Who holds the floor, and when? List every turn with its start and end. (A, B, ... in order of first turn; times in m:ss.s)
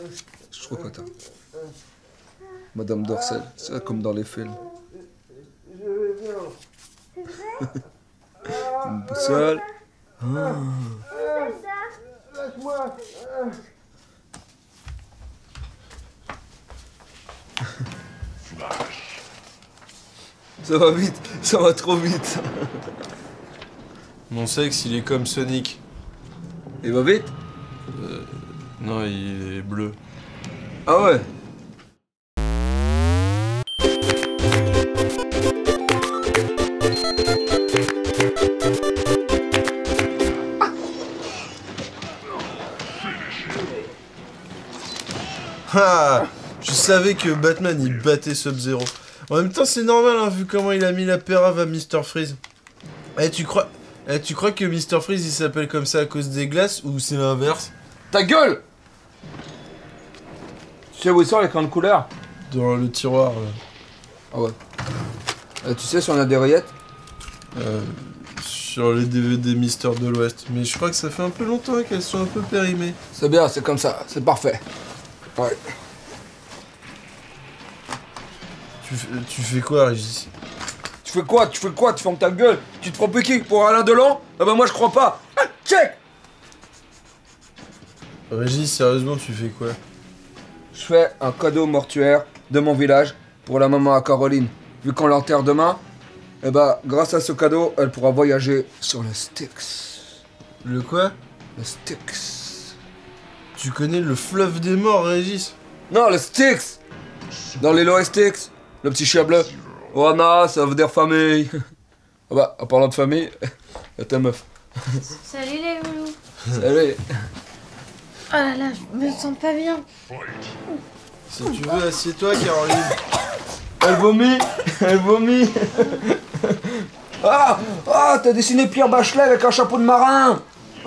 0:00.5-0:01.1 A
0:02.7-0:04.6 A
0:08.6-0:09.6 A
0:10.2-0:11.0 A
0:20.6-0:22.8 A
0:24.3-0:25.8 B
0:26.8-0:27.3 A
0:27.9-0:30.0 B
0:30.9-0:31.3 A
0:45.7-0:52.4 B
0:53.2-0:57.7 B
0:58.1-0:58.6 A
1:00.9-1:02.1 A
1:02.5-1:03.6 B
1:04.3-1:04.6 A
1:05.6-1:06.7 A
1:07.6-1:13.0 B
1:13.1-1:14.6 A
1:18.8-1:20.3 B
1:21.0-1:26.0 A
1:28.3-1:29.8 B
1:30.7-1:35.8 A
1:36.4-1:40.0 A
1:40.6-1:41.2 B
1:41.6-1:42.8 A
1:43.6-1:45.6 B
1:45.9-1:46.8 A
1:47.6-1:51.6 A
1:52.3-1:53.4 A
1:54.0-1:55.0 A
1:55.1-1:56.2 C
1:56.5-1:57.0 A
1:58.3-1:59.8 C
2:01.3-2:03.0 B
2:03.8-2:10.4 A